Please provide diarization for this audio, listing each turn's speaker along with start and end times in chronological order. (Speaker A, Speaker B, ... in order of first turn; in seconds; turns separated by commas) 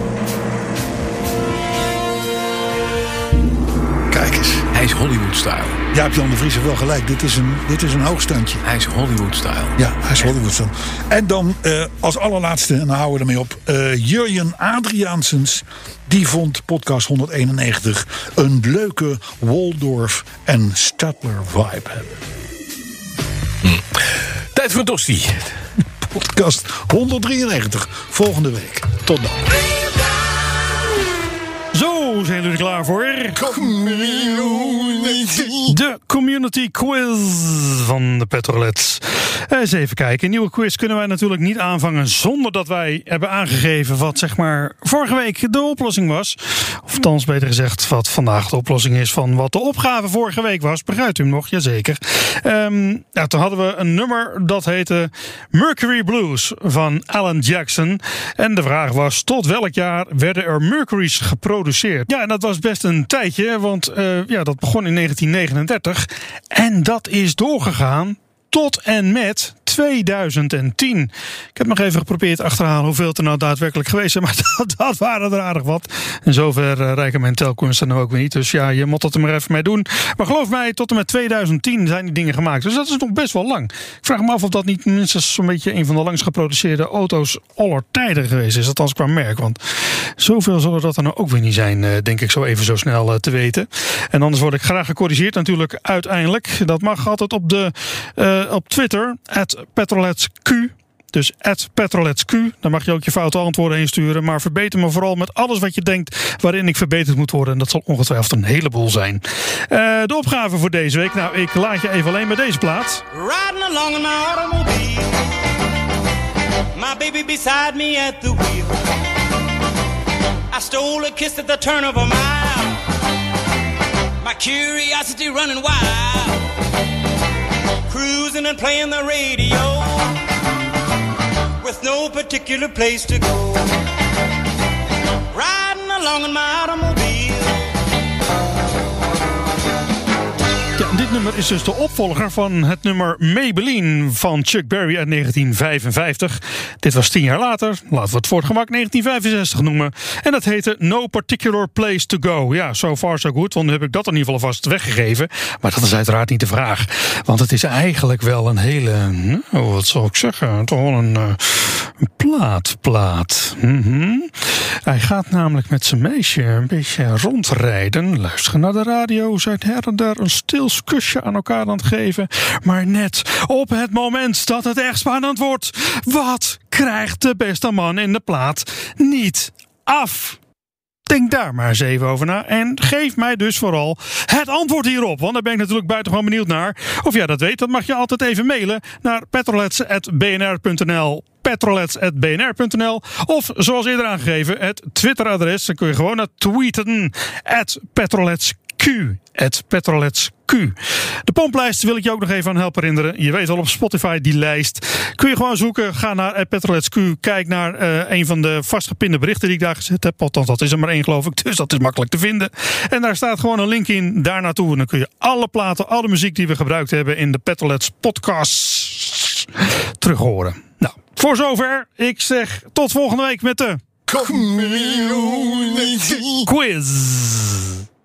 Speaker A: 4.1-4.7, Speaker B: 4.7-5.8, Speaker A: 5.9-8.6, Speaker B: 8.6-9.8, Speaker A: 9.8-22.2, Speaker B: 23.6-25.6, Speaker A: 26.0-29.7, Speaker C: 31.7-33.5, Speaker A: 33.3-35.7, Speaker C: 35.7-89.6, Speaker C: 90.2-113.0, Speaker D: 113.1-115.4, Speaker D: 116.7-118.8, Speaker D: 120.5-122.9, Speaker D: 124.2-126.5, Speaker D: 127.9-130.3, Speaker D: 131.6-133.8, Speaker D: 135.3-137.8, Speaker C: 140.8-180.4, Speaker C: 181.1-219.5, Speaker C: 220.0-223.8, Speaker A: 224.1-226.5, Speaker C: 226.4-227.8